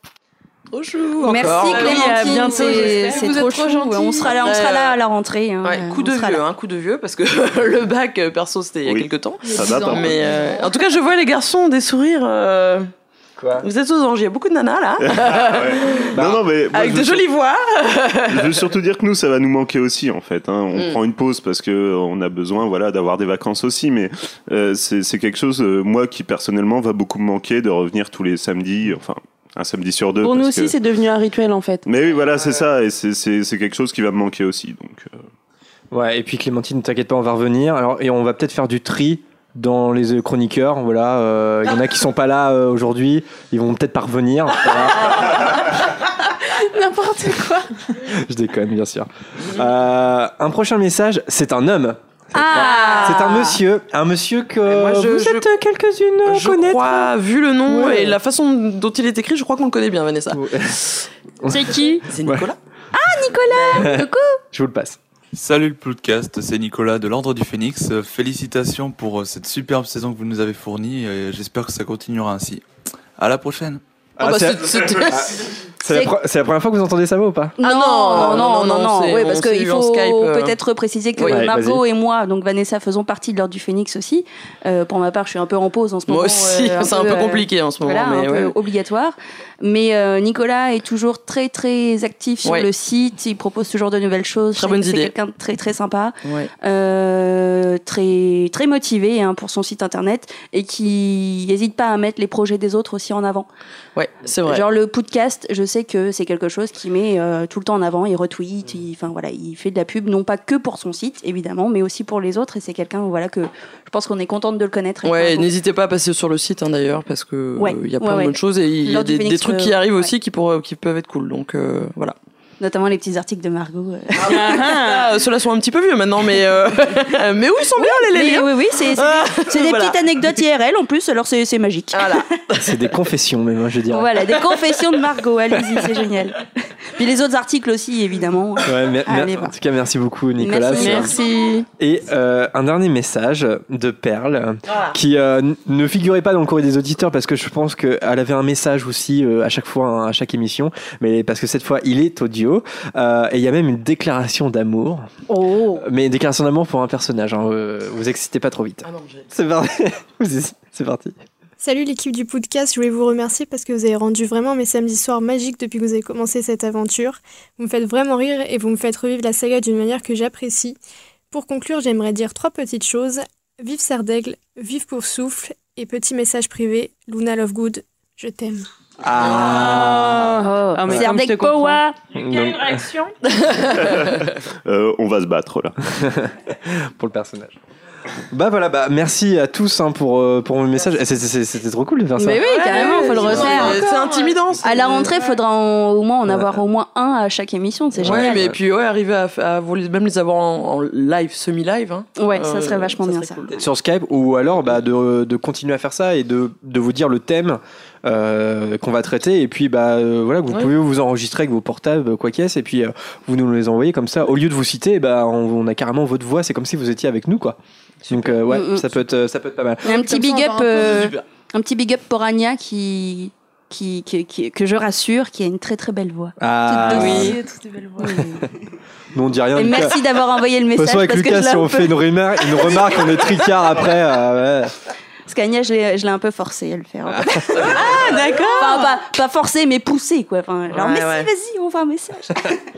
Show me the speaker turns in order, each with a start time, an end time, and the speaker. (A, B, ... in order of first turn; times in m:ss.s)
0:00.7-0:02.8 A
0:01.2-0:06.4 B
0:01.7-0:04.5 C
0:01.8-0:03.4 D
0:04.3-0:05.0 A
0:05.6-0:12.9 A
0:08.8-0:10.2 E
0:09.4-0:10.8 C
0:13.4-0:13.7 F
0:13.6-0:16.1 A
0:15.1-0:17.2 E
0:16.1-0:16.4 F
0:16.7-0:18.7 A
0:18.3-0:30.7 E
0:20.7-0:21.0 A
0:30.2-0:31.9 D
0:31.9-0:35.2 E
0:35.9-0:45.4 F
0:46.5-0:47.7 C
0:48.1-0:57.1 F
0:52.3-0:53.6 B
0:54.6-0:55.5 A
0:56.2-1:01.0 A
0:57.6-0:58.2 F
1:00.3-1:00.8 F
1:01.4-1:02.5 F
1:01.5-1:02.0 B
1:02.0-1:02.6 A
1:02.9-1:04.4 B
1:03.7-1:05.0 F
1:05.3-1:12.6 G
1:13.2-1:13.8 G
1:14.2-1:17.6 F
1:14.2-1:15.5 A
1:15.9-1:16.1 B
1:17.6-1:43.5 B
1:17.6-1:20.6 A
1:18.1-1:18.4 F
1:21.2-1:21.4 A
1:21.2-1:21.8 F
1:26.1-1:28.5 A
1:34.6-1:35.1 A
1:36.2-1:36.5 A
1:44.0-1:44.7 A
1:44.4-1:55.5 B
1:55.0-2:02.2 A
1:57.6-2:00.1 B
2:02.6-2:04.6 B
2:04.2-2:10.3 A
2:07.8-2:12.2 B
2:11.9-2:12.8 A
2:12.6-2:14.1 F
2:13.9-2:16.4 B
2:16.9-2:19.5 B
2:18.6-2:21.1 F
2:20.4-2:21.2 B
2:20.8-2:21.7 D
2:21.8-2:35.1 F
2:35.3-2:35.8 B
2:35.7-2:41.2 F
2:38.8-2:39.3 A
2:41.6-2:50.8 H
2:51.3-2:58.6 H
2:59.0-3:00.4 F
2:59.4-3:01.8 D
3:00.4-3:01.9 B
3:02.1-3:02.9 F
3:02.7-3:03.1 D
3:03.4-3:03.7 A
3:03.8-3:05.8 E
3:06.0-3:07.6 F
3:08.3-3:12.5 F
3:12.2-3:13.8 B
3:12.5-3:15.1 A
3:12.6-3:14.4 C
3:13.2-3:13.8 F
3:14.6-3:18.4 B
3:16.3-3:16.6 F
3:18.0-3:23.6 A
3:18.0-3:18.6 F
3:22.2-3:23.4 B
3:23.6-3:37.6 F
3:38.0-3:38.4 A
3:38.1-3:39.9 F
3:38.5-3:38.9 B
3:39.8-3:41.1 C
3:39.8-3:47.4 B
3:46.4-3:47.4 F
3:46.9-3:48.2 C
3:49.1-3:50.0 F
3:49.5-3:51.9 B
3:50.7-3:54.7 F
3:55.3-3:58.0 B
3:57.1-3:57.6 F
3:57.7-3:59.0 D
3:57.7-3:58.2 A
3:58.5-4:02.6 B
4:00.8-4:01.0 A